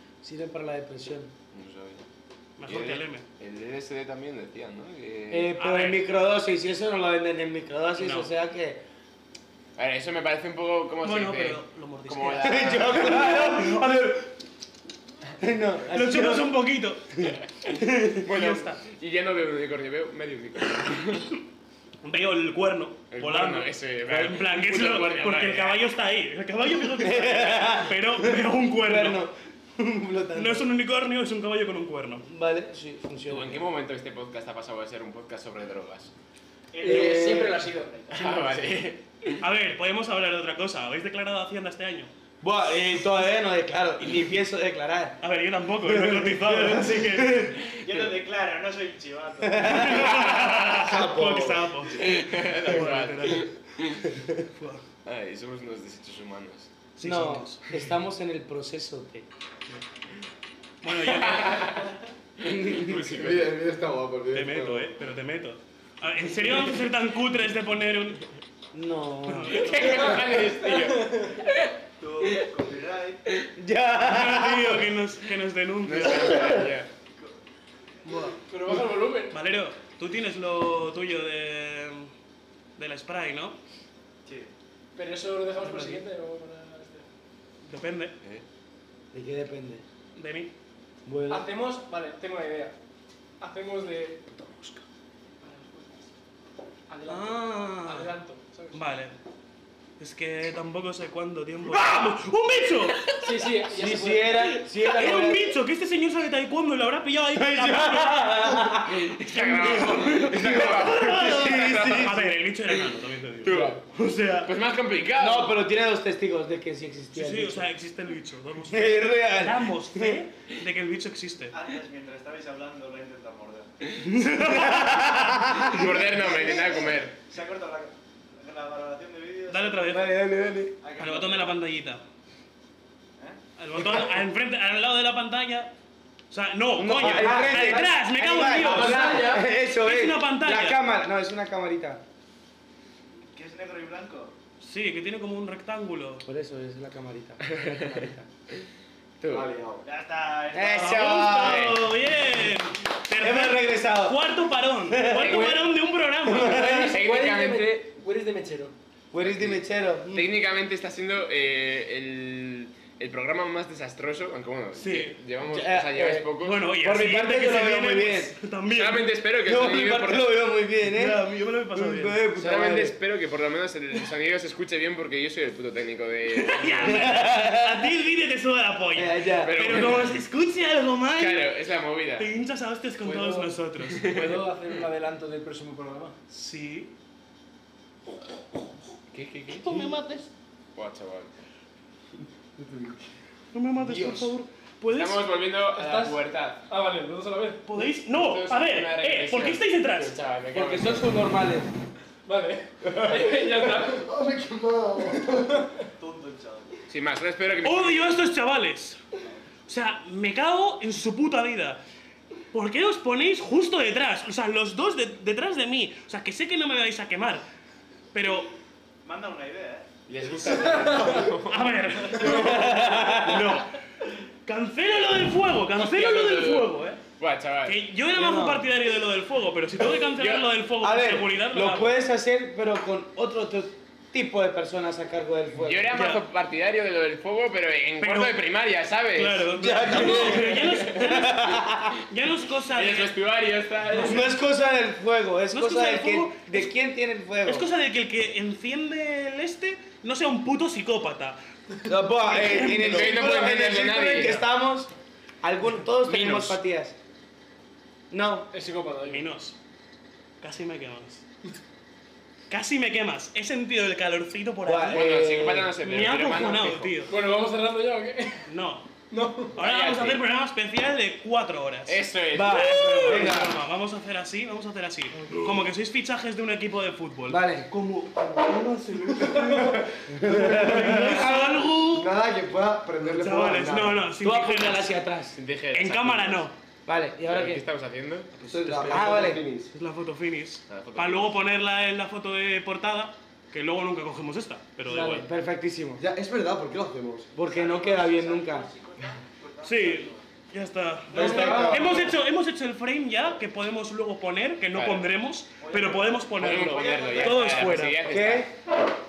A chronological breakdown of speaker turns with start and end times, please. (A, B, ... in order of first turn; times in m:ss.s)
0:00.2-0:01.3 A
0:01.5-0:02.0 B
0:02.6-0:03.2 C
0:02.7-0:05.5 B
0:05.3-0:08.8 A
0:05.6-0:06.0 C
0:08.0-0:08.3 C
0:09.8-0:13.4 B
0:11.0-0:14.2 C
0:12.4-0:14.3 A
0:15.4-0:16.7 A
0:15.9-0:17.1 C
0:17.2-0:18.2 A
0:18.2-0:21.3 B
0:18.2-0:18.8 C
0:22.0-0:29.2 C
0:23.1-0:25.8 B
0:27.0-0:30.7 A
0:30.3-0:32.2 C
0:32.2-0:33.6 A
0:33.3-0:36.1 B
0:36.7-0:37.8 D
0:36.8-0:38.8 E
0:36.8-0:37.7 A
0:38.1-0:39.4 B
0:39.4-0:42.1 C
0:42.4-0:45.2 A
0:45.2-0:47.5 C
0:45.8-0:47.6 A
0:47.5-0:48.2 B
0:47.8-0:50.3 D
0:49.4-0:50.1 A
0:49.6-0:53.5 C
0:49.9-0:50.6 B
0:50.8-0:51.8 F
0:51.9-0:54.1 B
0:54.6-0:54.8 C
0:55.0-0:56.7 B
0:57.0-0:57.7 C
0:57.0-0:59.3 A
1:00.8-1:01.8 C
1:00.9-1:01.9 B
1:02.4-1:03.5 B
1:02.4-1:03.1 A
1:03.0-1:04.9 F
1:04.3-1:08.2 C
1:08.7-1:09.9 A
1:09.2-1:10.2 C
1:09.5-1:11.7 B
1:09.7-1:11.5 E
1:12.0-1:13.2 D
1:13.6-1:14.9 A
1:14.0-1:16.6 C
1:15.8-1:16.9 B
1:16.3-1:16.6 A
1:18.1-1:18.4 C
1:18.2-1:19.4 E
1:19.3-1:22.1 C
1:22.8-1:23.6 C
1:24.2-1:24.5 D
1:25.0-1:27.1 E
1:25.6-1:26.0 C
1:27.6-1:28.1 C
1:29.1-1:29.8 A
1:30.2-1:30.5 C
1:31.1-1:31.5 A
1:31.3-1:32.8 E
1:33.4-1:34.6 E
1:35.4-1:36.1 E
1:36.9-1:39.0 E
1:37.1-1:38.1 C
1:38.7-1:39.1 C
1:40.0-1:43.1 C
1:43.2-1:44.6 E
1:43.7-1:45.5 A
1:44.8-1:48.5 C
1:47.4-1:52.3 A
1:48.9-1:52.3 B
1:49.7-1:54.5 C
1:53.4-1:53.8 B
1:54.4-1:55.6 B
1:55.2-1:57.7 A
1:57.1-2:01.6 C
1:58.7-2:00.3 A
2:01.5-2:03.7 D
2:04.0-2:05.4 C
2:04.4-2:06.2 A
2:05.5-2:07.2 B
2:07.3-2:10.0 D
2:09.5-2:10.1 C
2:09.9-2:10.8 A
2:10.8-2:11.6 D
2:11.0-2:12.0 C
2:13.6-2:15.7 C
2:16.3-2:20.8 C
2:16.8-2:22.0 A
2:17.1-2:17.5 B
2:18.5-2:19.4 B
2:23.4-2:24.3 D
2:24.6-2:26.2 C
2:26.2-2:28.3 A
2:27.6-2:27.9 B
2:29.2-2:29.5 B
2:29.3-2:29.8 F
2:29.8-2:31.2 D
2:30.5-2:31.8 A
2:30.6-2:36.8 C
2:31.3-2:31.9 B
2:33.2-2:34.3 A
2:34.9-2:35.7 A
2:35.2-2:35.6 B
2:36.2-2:37.0 A
2:36.3-2:37.8 B
2:36.4-2:38.8 E
2:39.1-2:40.3 A
2:39.2-2:46.7 B
2:44.8-2:45.2 C
2:45.4-2:48.4 A
2:46.4-2:49.1 C
2:48.7-2:50.4 B
2:49.4-2:53.0 A
2:50.8-2:52.2 C
2:52.4-2:57.3 B
2:56.3-3:01.6 C
2:56.8-2:58.0 A
2:58.9-2:59.8 A
2:59.4-3:00.2 B
3:01.1-3:02.3 B
3:02.2-3:04.1 C
3:03.0-3:06.2 E
3:03.9-3:04.4 B
3:06.3-3:06.9 C
3:09.1-3:09.9 B
3:09.5-3:10.3 C
3:10.8-3:11.3 B
3:12.6-3:12.9 F
3:13.5-3:15.4 C
3:14.9-3:16.6 B
3:15.8-3:17.7 E
3:17.6-3:20.2 C
3:18.1-3:21.1 B
3:20.5-3:21.7 A
3:22.2-3:24.1 E
3:22.8-3:25.5 F
3:25.3-3:25.7 E
3:26.0-3:26.8 D
3:26.9-3:28.2 B
3:27.6-3:29.0 C
3:29.6-3:31.8 C
3:32.5-3:37.4 C
3:38.1-3:38.5 C
3:39.0-3:39.9 D
3:40.1-3:42.7 B
3:40.9-3:41.2 E
3:41.0-3:43.7 C
3:42.2-3:43.6 A
3:44.5-3:47.0 C
3:45.7-3:47.8 B
3:47.6-3:52.0 C
3:48.2-3:48.7 A
3:50.0-3:50.5 B
3:50.8-3:55.9 A
3:55.6-4:01.3 B
3:55.9-3:56.2 C
3:58.0-3:58.4 C
3:59.1-4:01.5 C
3:59.5-4:02.0 A
4:02.1-4:03.2 C
4:02.6-4:04.3 B
4:03.9-4:04.3 C
4:03.9-4:07.7 A
4:05.5-4:06.7 C
4:07.5-4:11.4 C
4:11.9-4:17.0 A
4:12.4-4:14.5 B
4:12.7-4:13.0 C
4:16.0-4:16.6 E
4:18.1-4:18.5 A
4:18.5-4:19.3 E
4:19.0-4:19.6 C
4:20.4-4:21.2 C
4:22.5-4:27.1 C
4:24.6-4:25.7 A
4:24.9-4:27.0 B
4:27.1-4:28.5 E
4:28.5-4:28.9 C
4:29.1-4:29.6 E
4:29.5-4:42.1 C
4:29.6-4:30.2 B
4:31.9-4:33.5 B
4:32.3-4:33.6 A
4:37.3-4:37.7 A
4:40.1-4:41.6 A
4:40.2-4:44.1 F
4:43.0-4:44.9 C
4:44.2-4:45.4 A
4:45.3-4:46.5 B
4:45.7-4:46.5 C
4:46.9-4:47.6 A
4:47.2-4:48.3 B
4:48.4-4:49.1 C
4:48.5-4:49.7 F
4:48.7-4:49.4 A
4:49.7-4:55.3 C
4:50.7-4:51.4 B
4:54.9-4:56.0 A
4:56.0-4:57.3 F
4:57.4-4:58.7 A
4:57.4-5:00.2 D
4:59.6-5:08.1 C
5:01.1-5:02.1 F
5:01.2-5:02.0 A
5:04.7-5:05.1 B
5:05.6-5:06.4 D
5:06.3-5:08.5 B
5:06.6-5:08.5 A